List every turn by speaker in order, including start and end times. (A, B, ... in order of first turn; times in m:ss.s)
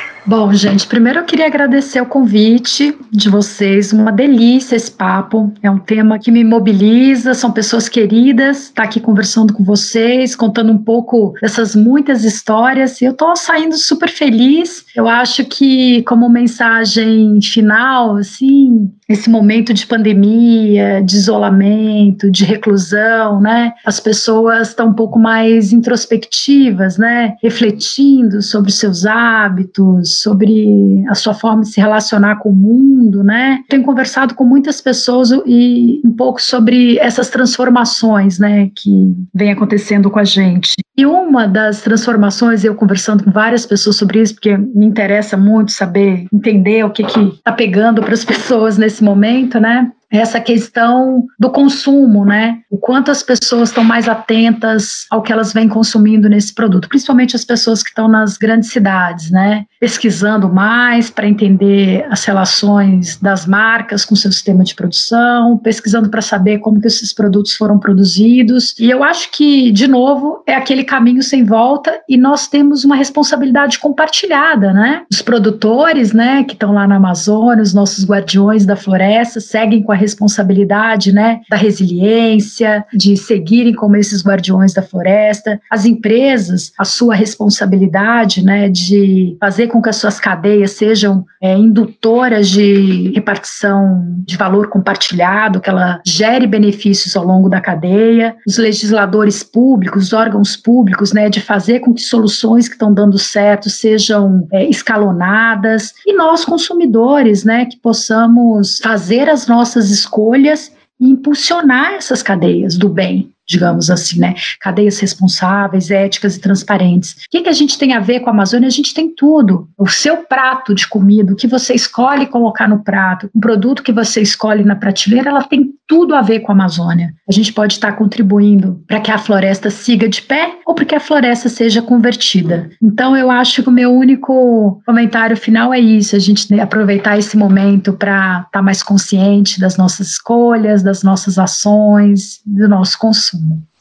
0:00.3-2:23.6 A